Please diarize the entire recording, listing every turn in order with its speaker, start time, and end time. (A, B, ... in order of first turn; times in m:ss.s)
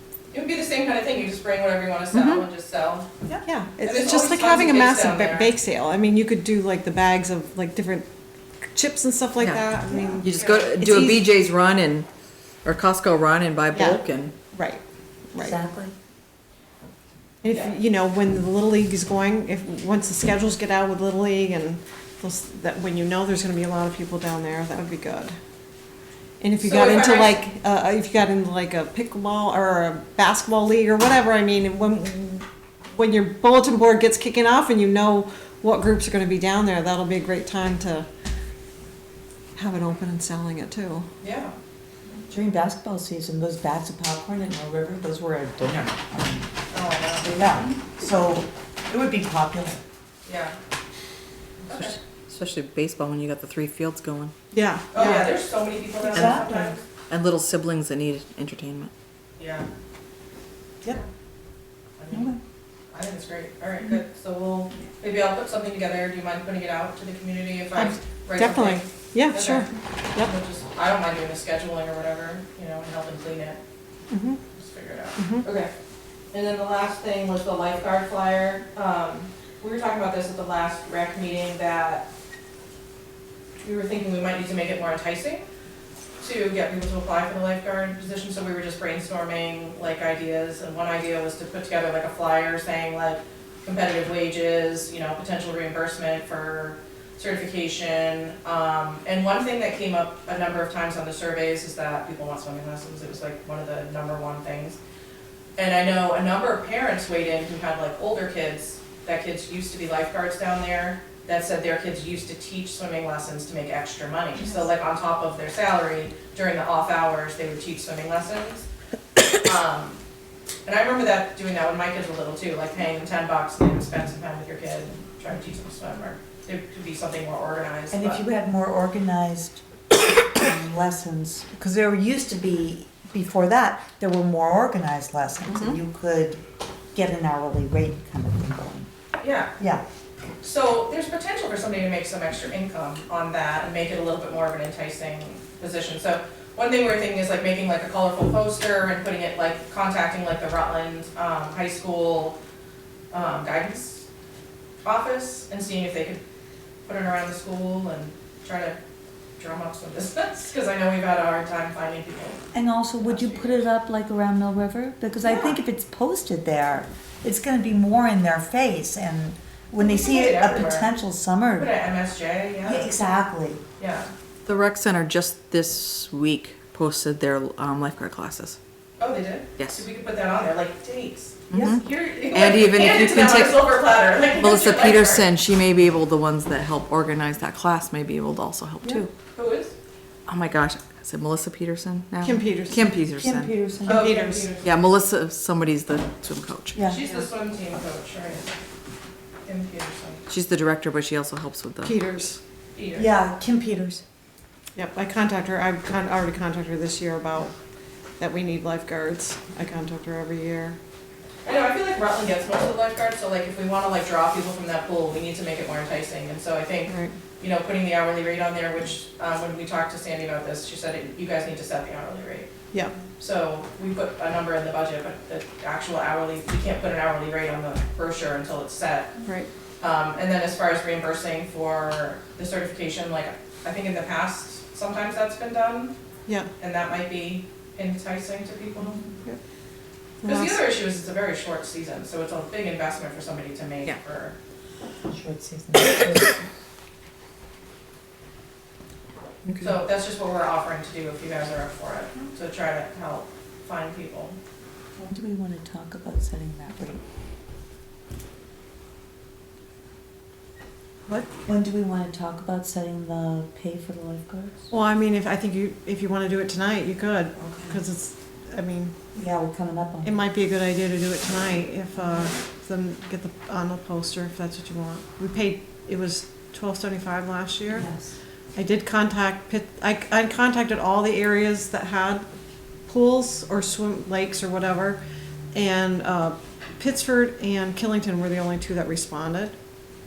0:00.3-0:03.1 A
0:02.1-0:02.4 B
0:03.4-0:08.1 C
0:03.8-0:05.5 A
0:08.6-0:11.3 C
0:09.4-0:09.7 B
0:09.9-0:10.2 D
0:10.2-0:12.1 B
0:10.3-0:10.8 A
0:12.6-0:14.3 B
0:13.7-0:14.0 C
0:14.5-0:14.8 C
0:15.3-0:15.6 C
0:15.4-0:15.9 D
0:17.4-0:25.4 C
0:17.5-0:17.7 A
0:26.4-0:38.1 C
0:26.6-0:27.4 A
0:39.6-0:41.1 C
0:41.2-0:41.5 A
0:42.3-0:46.5 D
0:46.7-0:47.4 A
0:47.2-0:49.8 D
0:50.2-0:50.6 A
0:51.6-0:52.0 A
0:52.3-0:54.3 B
0:54.5-0:55.3 C
0:54.9-0:56.8 A
0:56.0-0:56.7 D
0:57.1-0:58.9 B
0:59.4-0:59.7 A
1:02.0-1:02.4 A
1:02.1-1:02.4 D
1:02.9-1:13.6 A
1:07.7-1:10.3 C
1:14.1-1:14.4 C
1:14.6-1:15.7 A
1:15.2-1:15.4 C
1:16.3-1:22.1 A
1:23.6-1:25.4 A
1:26.2-1:44.8 A
1:45.6-1:58.7 A
1:59.4-2:00.0 A
2:00.6-2:08.2 A
2:07.9-2:09.6 D
2:10.3-2:16.4 D
2:15.5-2:15.8 B
2:16.9-2:18.9 D
2:19.2-2:19.5 A
2:19.6-2:19.8 D
2:20.4-2:32.4 A
2:33.1-2:34.0 A
2:34.8-2:36.2 A
2:36.9-2:38.8 A
2:39.4-2:42.4 A
2:42.5-2:51.7 D
2:43.0-2:43.6 A
2:45.2-2:45.6 A
2:49.8-2:50.9 A
2:51.5-2:53.0 A
2:52.6-2:53.6 D
2:53.8-2:54.1 A
2:54.4-2:58.6 B
2:59.0-3:05.3 A
2:59.6-2:59.8 B
3:01.5-3:03.8 B
3:01.5-3:01.8 D
3:04.4-3:09.1 B
3:09.3-3:09.7 A
3:10.3-3:13.5 B
3:12.2-3:12.9 C
3:13.2-3:14.1 D
3:13.8-3:14.5 C
3:13.8-3:14.7 A
3:14.6-3:16.8 B
3:16.7-3:17.0 D
3:16.8-3:18.5 A
3:19.4-3:20.2 A
3:20.3-3:22.0 B
3:21.8-3:22.4 C
3:22.8-3:23.1 A
3:22.9-3:24.0 D
3:24.8-3:27.5 C
3:28.2-3:30.8 C
3:31.4-3:42.5 A
3:36.9-3:37.1 C
3:43.2-3:49.1 A
3:49.8-3:55.9 A
3:56.2-3:56.5 C
3:56.6-3:59.0 A
4:00.2-4:00.6 C
4:00.2-4:04.3 A
4:05.1-4:06.4 D
4:09.4-4:09.8 B
4:09.6-4:14.4 A
4:15.0-4:17.0 D
4:21.4-4:24.7 D
4:24.7-4:28.9 C
4:27.4-4:27.7 D
4:29.1-4:30.2 D
4:30.0-4:37.9 C
4:37.7-4:38.1 D
4:38.5-4:42.2 C
4:42.9-4:45.0 C
4:45.5-4:49.5 C